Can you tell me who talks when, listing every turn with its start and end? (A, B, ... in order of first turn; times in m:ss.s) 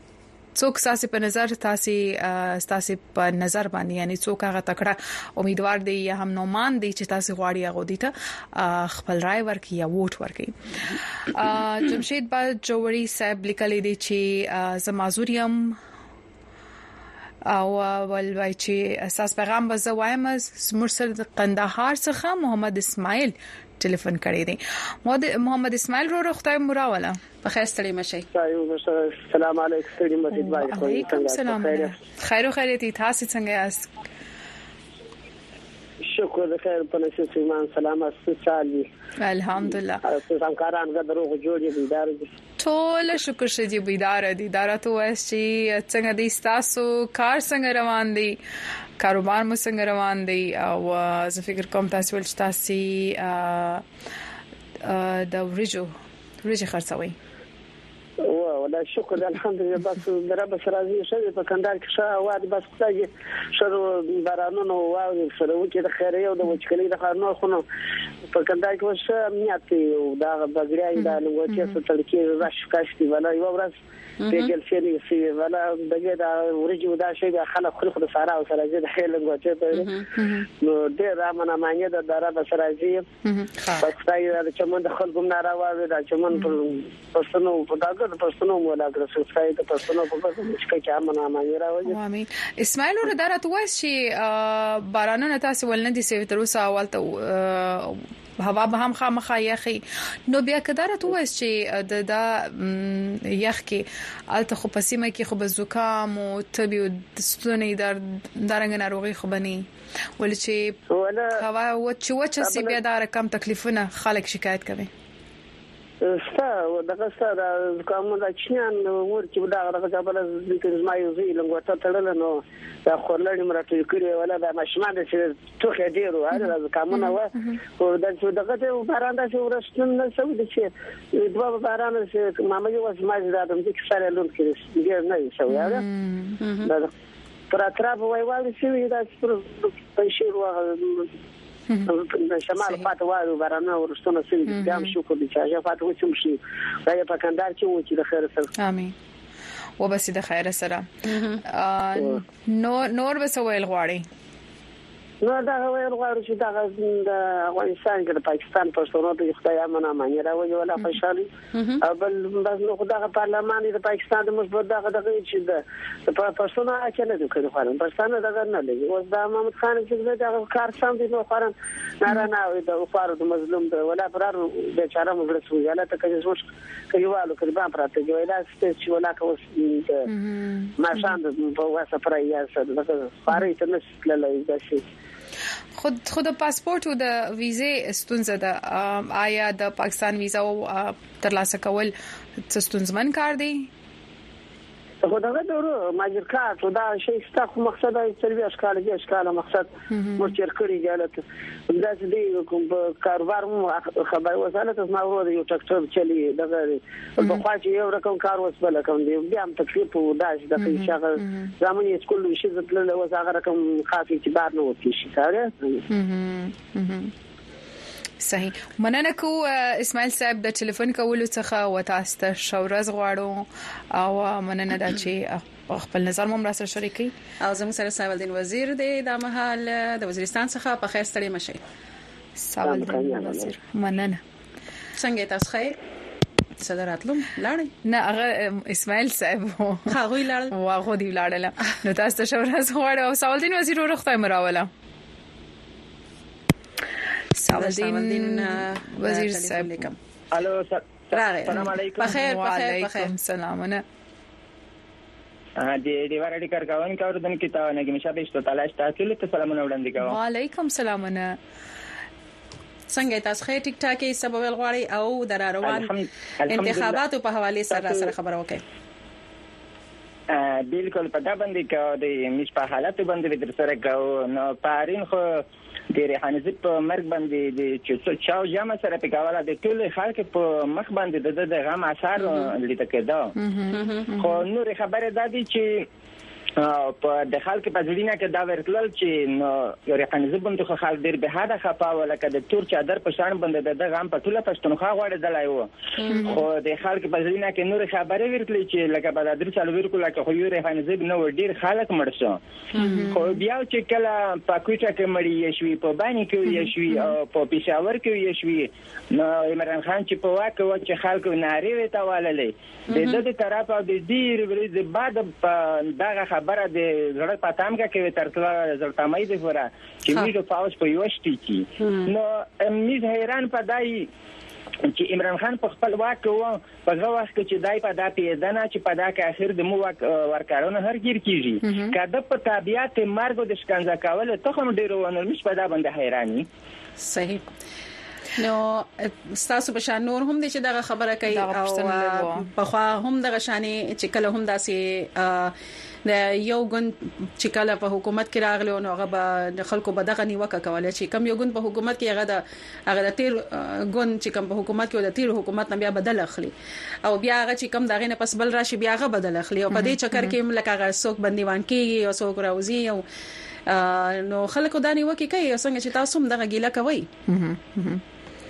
0:00.5-0:10.6 A
0:11.2-0:15.8 A
0:17.4-0:27.2 A
0:27.4-0:28.3 B
0:28.3-0:32.0 C
0:30.3-0:33.9 A
0:36.1-0:38.9 C
0:39.2-0:40.0 A
0:40.0-0:42.3 C
0:42.6-0:48.4 A
0:49.0-0:53.8 A
0:54.8-0:55.9 A
0:56.4-0:57.2 A
0:58.2-1:07.6 C
1:08.3-1:13.7 C
1:11.5-1:11.8 A
1:14.2-1:14.5 B
1:14.3-1:19.9 C
1:19.8-1:20.1 B
1:20.2-1:20.4 A
1:20.6-1:23.0 C
1:23.2-1:23.5 A
1:23.8-1:32.0 C
1:31.8-1:49.6 A
1:50.2-1:50.8 A
1:50.9-1:51.4 C
1:51.3-1:54.9 A
1:52.4-1:52.8 C
1:56.0-2:15.9 C
2:15.5-2:16.4 A
2:16.4-2:16.7 B
2:16.6-2:16.9 C
2:17.5-2:21.1 C
2:21.8-2:28.5 C
2:24.5-2:24.9 A
2:28.6-2:28.9 A
2:29.8-2:34.0 A
2:31.1-2:31.4 B
2:35.2-2:41.3 C
2:41.5-2:41.8 B
2:41.8-3:00.1 C
3:00.1-3:01.1 A
3:00.8-3:04.8 C
3:05.8-3:11.9 A
3:12.5-3:13.7 A
3:15.0-3:35.8 C
3:19.9-3:20.3 A
3:30.6-3:31.5 A
3:35.9-3:37.1 A
3:38.2-3:47.1 A
3:47.4-3:51.6 B
3:52.4-3:54.2 A
3:52.6-3:53.6 C
3:54.9-3:55.8 B
3:56.6-3:57.7 B
3:57.8-3:59.9 A
3:59.9-4:00.5 B
4:00.5-4:04.7 A
4:07.4-4:09.9 A
4:07.5-4:10.0 B
4:10.3-4:12.1 D
4:11.1-4:13.1 B
4:11.5-4:13.8 A
4:15.6-4:20.2 D
4:20.0-4:21.4 A
4:22.9-4:25.9 B
4:25.6-4:27.0 D
4:26.5-4:28.6 B
4:30.3-4:43.3 D
4:43.4-4:44.4 A
4:43.7-4:44.1 B
4:44.2-4:45.8 D
4:46.6-4:55.7 D
4:56.1-4:56.4 A
4:56.2-5:02.4 D
5:02.7-5:03.1 B
5:02.8-5:03.3 A
5:03.1-5:24.1 D
5:12.9-5:13.2 B
5:21.8-5:22.1 B
5:24.9-5:36.4 D
5:31.6-5:31.9 A
5:37.0-5:37.4 B
5:38.4-5:45.5 B
5:41.3-5:42.5 A
5:46.0-5:56.5 B
5:57.0-6:03.0 B
5:59.7-6:00.3 A
6:03.7-6:07.1 B
6:07.3-6:08.0 A